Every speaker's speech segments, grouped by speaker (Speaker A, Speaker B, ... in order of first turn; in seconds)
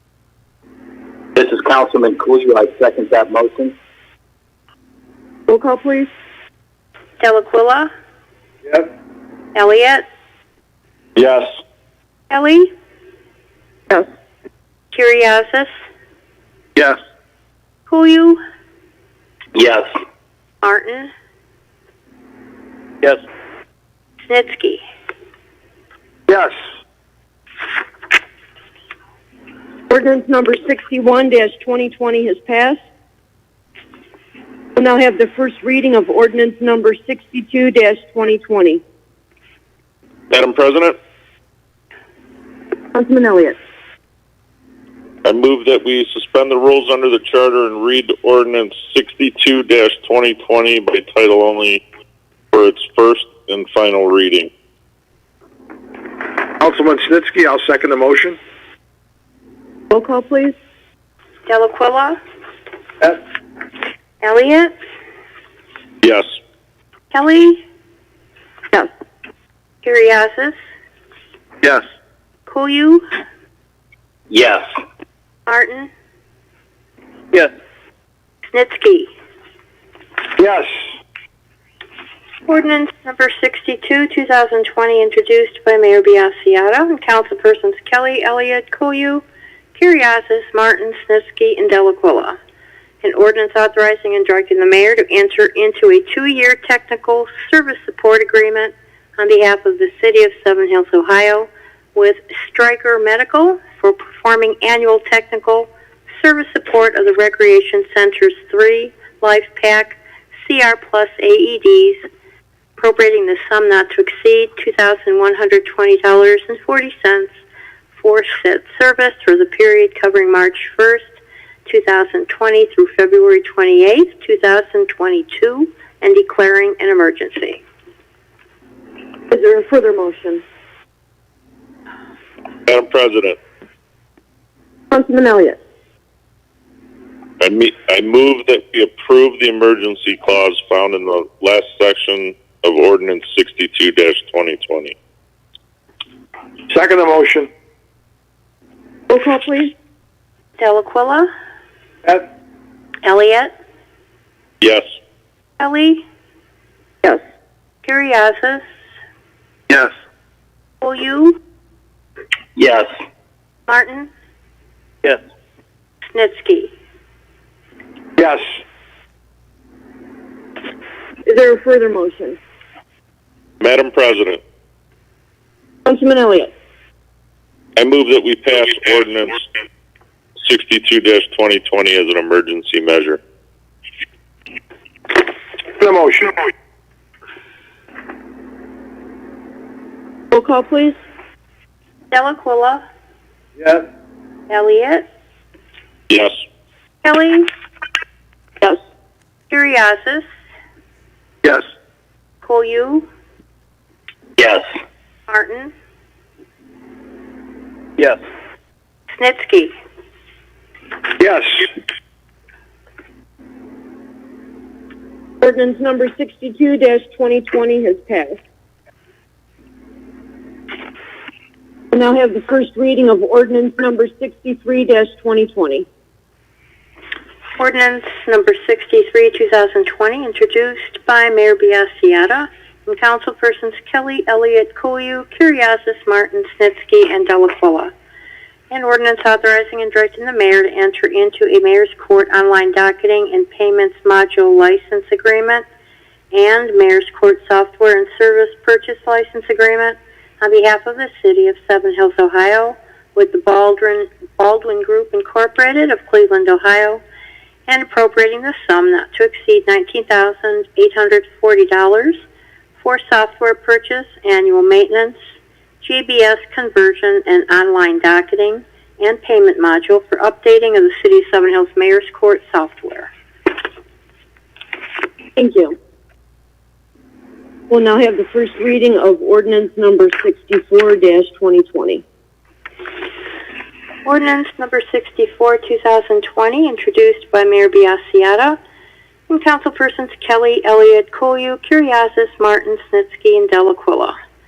Speaker A: 1.4-3.8, 19.6-19.9, 74.3-74.7, 162.6-162.9, 204.4-204.7
Speaker B: 5.5-6.1, 29.9-32.8, 34.8-38.8, 42.9-43.6, 59.9-60.5, 129.3-130.4, 134.9-135.6, 149.1-149.7, 171.2-172.4, 175.9-176.5, 190.3-191.0, 215.4-218.4, 221.9-225.9, 275.4-275.8, 277.7-282.0
Speaker C: 7.2-7.9, 9.6-10.0, 12.3-12.7, 14.9-15.7, 17.9-18.4, 20.6-21.1, 24.2-24.8, 61.5-62.2, 64.2-64.7, 67.1-67.6, 69.8-70.6, 72.5-73.1, 75.5-75.9, 78.5-79.1, 82.5-92.4, 93.0-105.7, 106.2-112.0, 112.8-117.3, 118.0-121.2, 121.7-127.6, 150.6-151.3, 153.0-153.5, 155.6-156.0, 157.8-158.6, 160.8-161.4, 163.7-164.1, 166.1-166.7, 192.1-192.8, 194.5-195.1, 197.0-197.5, 199.5-200.2, 202.4-203.1, 205.3-205.7, 209.1-209.7, 227.6-237.9, 238.7-245.6, 246.3-257.0, 257.7-262.2, 262.8-265.2, 265.8-273.1, 284.1-288.6, 289.3-294.1
Speaker D: 8.7-8.9, 26.3-26.6, 56.6-58.4, 80.4-80.7, 146.7-147.5, 168.2-168.5, 185.8-186.4, 193.6-193.9, 211.2-211.7
Speaker E: 40.3-41.0, 45.2-51.8, 52.5-54.5, 66.0-66.3, 132.7-133.4, 137.4-144.9, 173.6-174.4, 177.8-179.4, 180.4-183.2, 196.1-196.4